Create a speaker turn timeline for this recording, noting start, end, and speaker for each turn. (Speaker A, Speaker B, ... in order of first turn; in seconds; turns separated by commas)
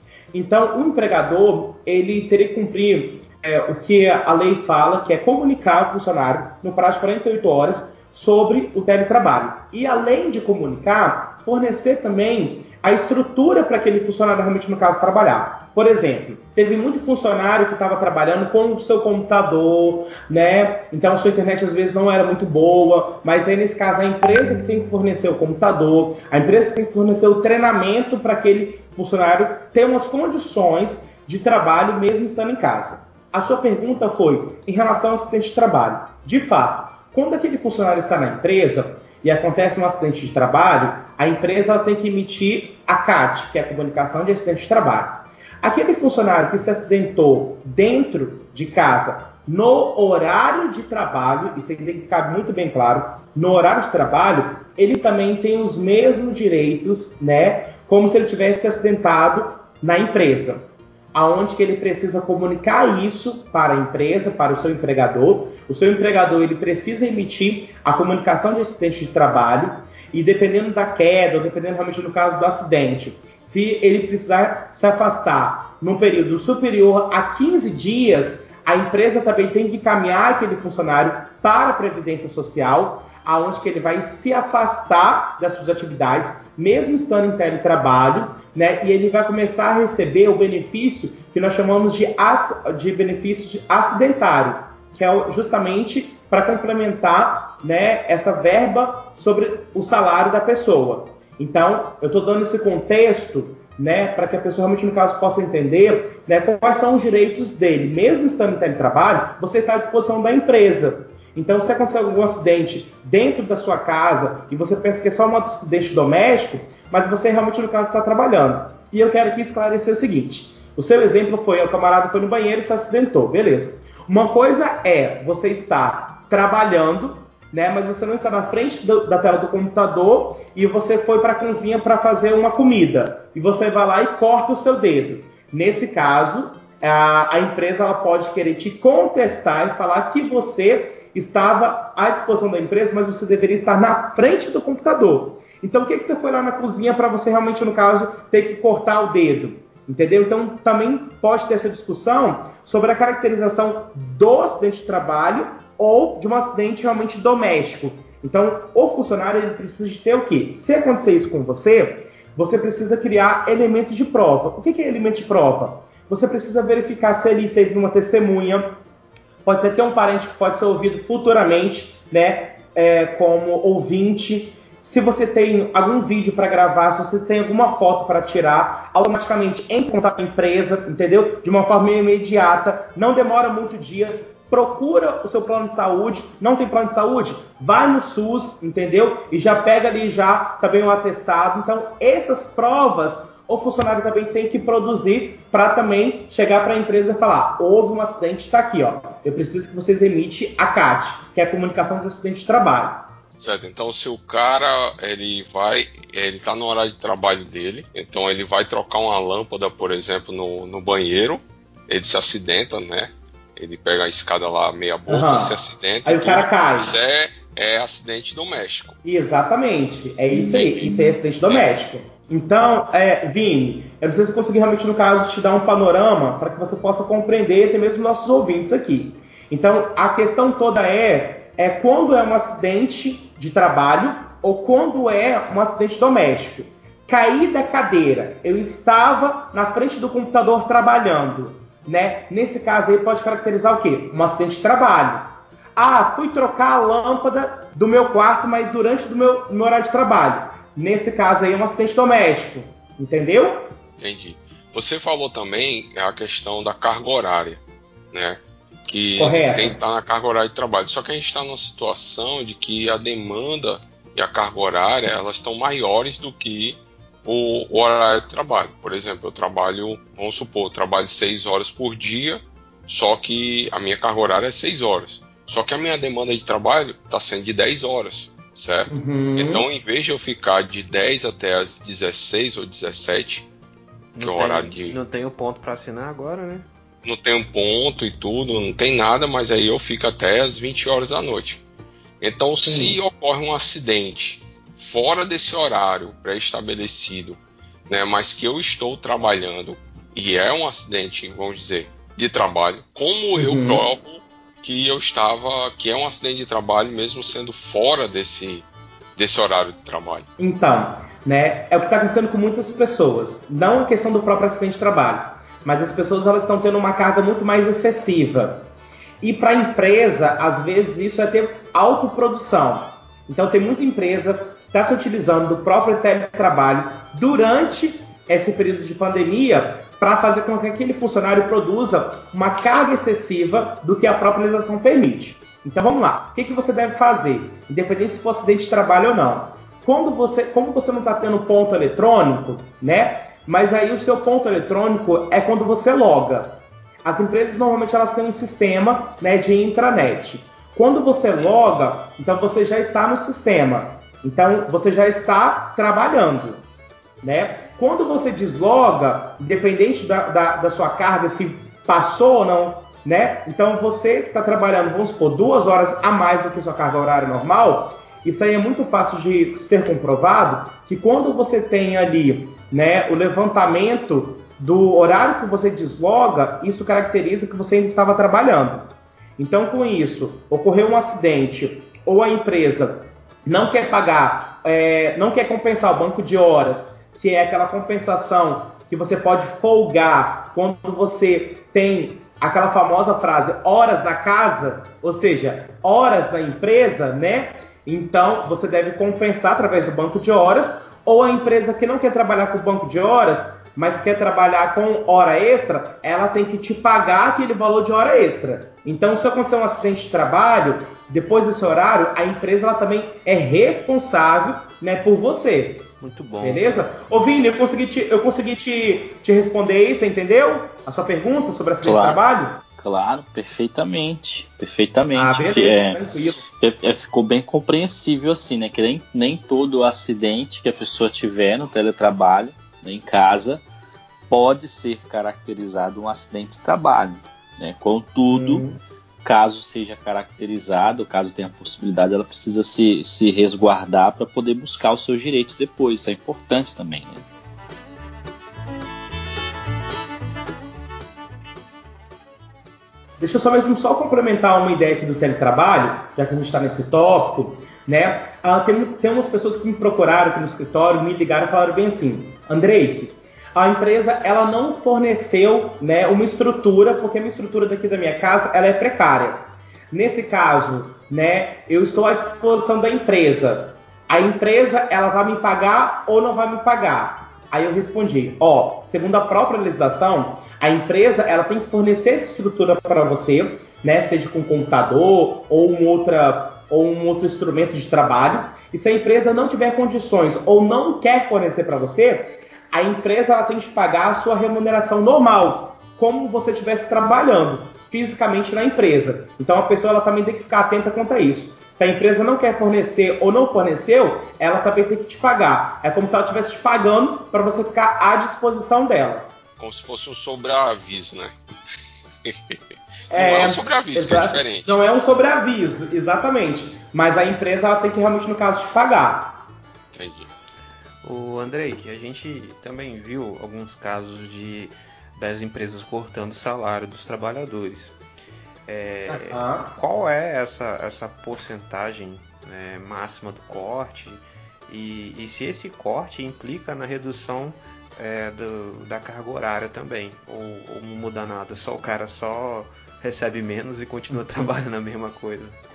Speaker A: 0.3-168.7, Speaker A: 169.4-203.1, Speaker B: 203.4-219.0, Speaker A: 215.1-216.9, Speaker A: 219.0-253.7, Speaker B: 220.4-221.7, Speaker B: 254.0-257.6, Speaker B: 258.1-283.5, Speaker A: 259.1-259.8, Speaker A: 278.9-279.6, Speaker C: 284.1-286.7, Speaker B: 284.2-285.0, Speaker B: 287.0-291.6, Speaker B: 292.2-308.6, Speaker A: 292.6-293.0, Speaker A: 303.4-303.9, Speaker B: 309.2-310.3, Speaker A: 310.4-318.6, Speaker A: 319.2-356.6, Speaker A: 357.2-415.9, Speaker C: 416.0-416.8, Speaker A: 416.4-422.6, Speaker D: 421.8-422.2, Speaker D: 422.8-433.6, Speaker A: 425.1-426.4, Speaker D: 434.3-438.6, Speaker A: 438.3-438.8, Speaker D: 439.2-447.2, Speaker A: 453.2-509.3, Speaker B: 509.6-511.3, Speaker B: 512.2-512.6, Speaker A: 513.1-519.5, Speaker B: 513.1-514.8, Speaker B: 519.9-520.3, Speaker C: 521.0-528.0, Speaker C: 528.6-545.6, Speaker A: 529.1-529.7